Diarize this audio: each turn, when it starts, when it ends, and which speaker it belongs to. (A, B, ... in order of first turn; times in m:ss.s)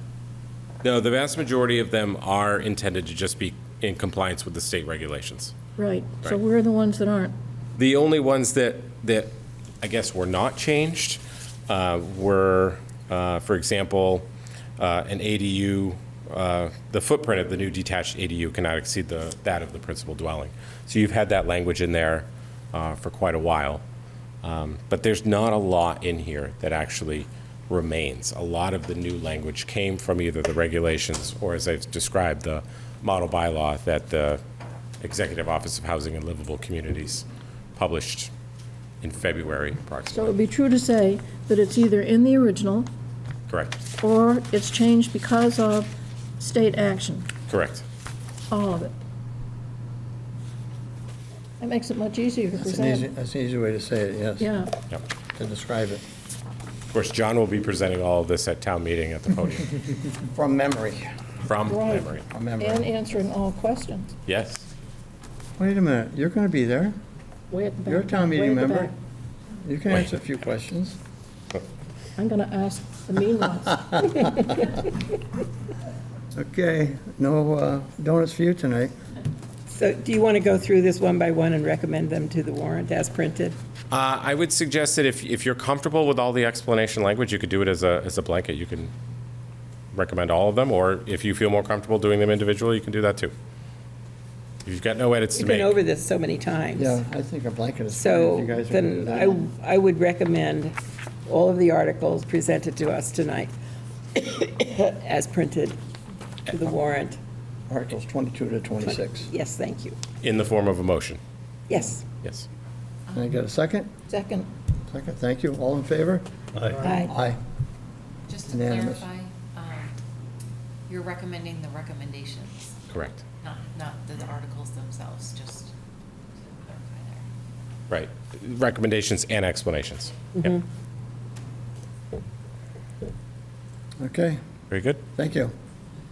0:00.8-0:05.5 A
0:05.8-0:07.3 B
0:07.8-0:14.2 A
0:14.8-0:23.8 A
0:24.4-0:34.4 A
0:35.0-0:38.3 A
0:39.0-0:40.4 A
0:40.1-0:42.9 B
0:43.5-0:43.8 A
0:44.0-0:47.3 B
0:47.5-0:47.8 A
0:48.5-0:48.9 B
0:51.6-0:53.1 B
0:52.6-0:54.5 C
0:54.4-0:54.7 B
0:55.4-0:56.0 C
0:56.9-0:59.7 A
1:00.3-1:01.1 C
1:01.5-1:02.2 A
1:01.6-1:04.2 B
1:02.3-1:02.9 C
1:04.3-1:04.6 A
1:05.6-1:07.0 C
1:07.5-1:08.9 B
1:07.9-1:08.9 C
1:09.6-1:11.0 C
1:12.2-1:14.5 B
1:16.3-1:18.9 C
1:19.7-1:23.6 D
1:23.9-1:28.9 A
1:29.9-1:33.3 A
1:34.6-1:35.7 A
1:35.4-1:37.0 D
1:36.7-1:39.3 C
1:37.9-1:43.5 D
1:44.1-1:45.8 D
1:46.5-1:47.2 D
1:47.7-1:49.3 C
1:48.8-1:50.0 D
1:50.2-1:51.2 A
1:51.7-1:52.0 D
1:53.1-1:53.9 C
1:54.1-1:54.5 B
1:54.9-1:57.4 C
1:56.8-1:57.1 D
1:58.3-1:59.9 E
1:58.5-1:59.0 C
2:00.9-2:02.8 E
2:02.9-2:03.2 A
2:03.4-2:05.7 E
2:06.4-2:07.2 E
2:07.9-2:10.6 A
2:14.0-2:14.4 C
2:14.7-2:15.0 A
2:15.1-2:15.5 C